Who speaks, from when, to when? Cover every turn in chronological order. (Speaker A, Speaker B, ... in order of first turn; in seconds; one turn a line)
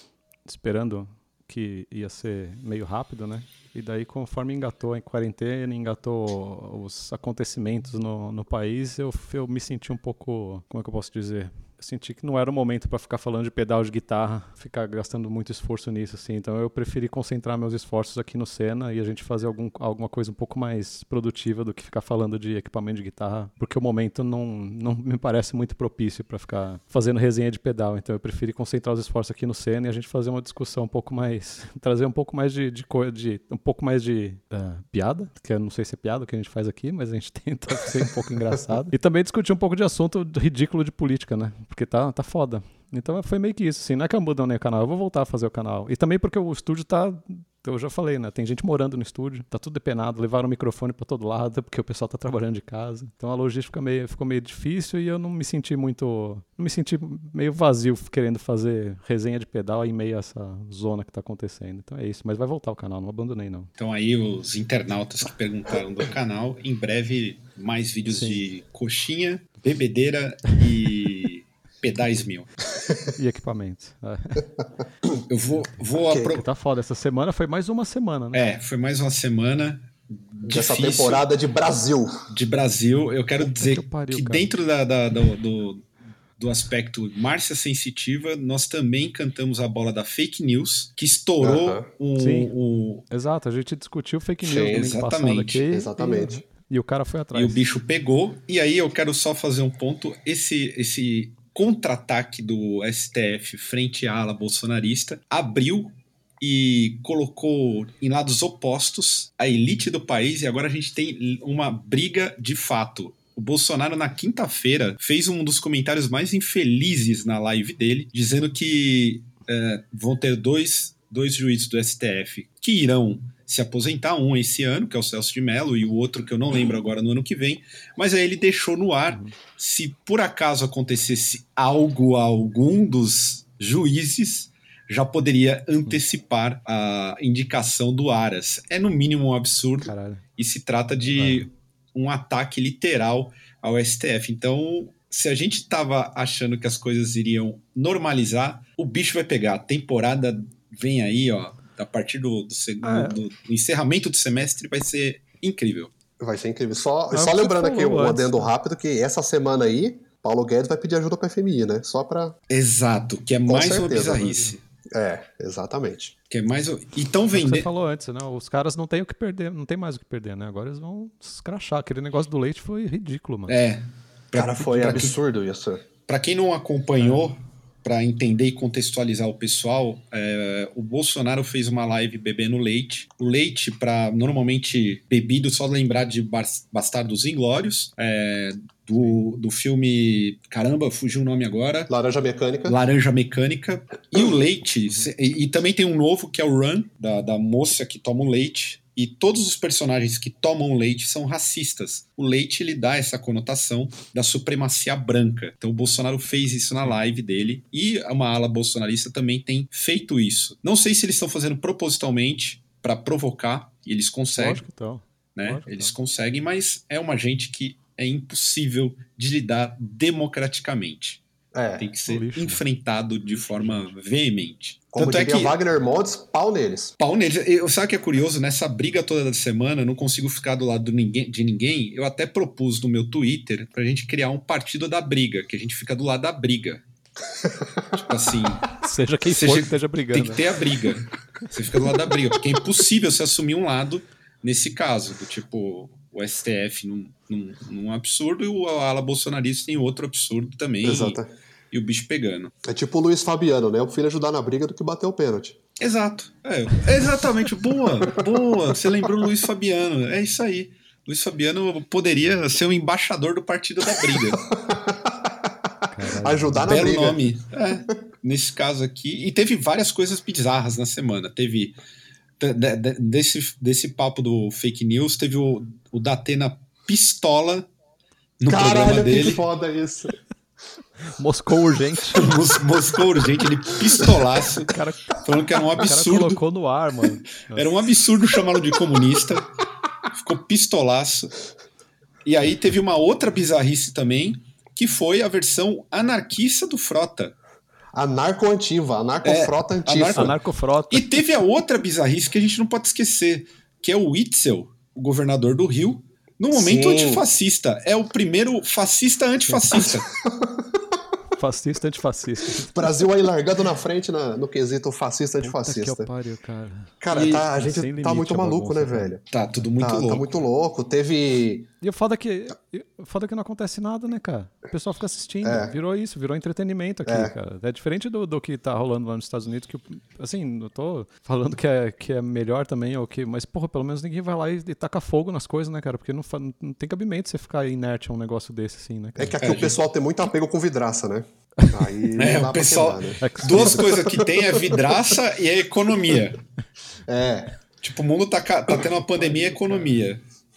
Speaker A: 0.5-63.7
Speaker B: 63.8-72.5
Speaker A: 68.1-68.4
Speaker A: 73.1-74.5
Speaker B: 75.3-76.4
Speaker C: 76.1-76.4
Speaker A: 76.3-78.4
Speaker B: 78.3-81.2
Speaker C: 80.5-82.2
Speaker B: 82.3-85.8
Speaker A: 83.4-84.5
Speaker B: 86.4-93.0
Speaker C: 91.4-91.9
Speaker A: 92.2-92.5
Speaker A: 93.1-97.6
Speaker C: 94.4-94.9
Speaker B: 94.5-95.7
Speaker C: 95.7-96.4
Speaker B: 97.3-155.9
Speaker A: 139.8-140.2
Speaker A: 141.1-141.5
Speaker A: 152.8-153.2
Speaker C: 156.2-162.3
Speaker A: 157.1-158.5
Speaker B: 162.5-164.6
Speaker C: 163.5-164.4
Speaker C: 164.9-166.1
Speaker B: 166.3-167.7
Speaker A: 167.3-173.6
Speaker B: 173.5-175.2
Speaker C: 174.3-175.8
Speaker B: 176.1-191.9
Speaker C: 191.9-192.8
Speaker B: 192.7-214.6
Speaker A: 214.4-215.9
Speaker B: 215.3-221.2
Speaker C: 221.5-221.9
Speaker B: 221.8-225.6
Speaker A: 222.1-222.6
Speaker A: 223.3-223.9
Speaker C: 224.9-226.9
Speaker B: 227.0-236.8
Speaker B: 237.9-252.5
Speaker A: 238.8-240.4
Speaker C: 250.8-251.3
Speaker C: 252.6-255.6
Speaker B: 255.8-264.4
Speaker C: 264.6-265.5
Speaker A: 265.9-266.9
Speaker C: 266.2-267.2
Speaker B: 266.6-271.8
Speaker B: 272.4-277.7
Speaker B: 278.4-279.4
Speaker C: 278.5-280.1
Speaker A: 281.1-282.3
Speaker B: 282.1-286.4
Speaker A: 284.6-287.7
Speaker B: 287.5-289.5
Speaker B: 290.1-291.3
Speaker B: 292.2-297.3
Speaker C: 297.9-300.3
Speaker B: 299.2-300.3
Speaker A: 300.1-301.2
Speaker B: 300.9-310.1
Speaker C: 306.5-307.2
Speaker C: 310.2-310.7
Speaker A: 311.4-312.8
Speaker C: 312.6-316.1
Speaker A: 315.4-317.0
Speaker C: 317.0-319.2
Speaker B: 317.1-317.5
Speaker A: 317.5-319.1
Speaker B: 319.3-320.3
Speaker C: 319.8-321.7
Speaker A: 321.8-339.4
Speaker C: 325.4-325.7
Speaker C: 327.1-327.3
Speaker C: 339.2-343.8
Speaker B: 339.4-339.8
Speaker B: 342.1-346.4
Speaker A: 343.2-343.8
Speaker C: 347.1-347.5
Speaker B: 347.8-350.2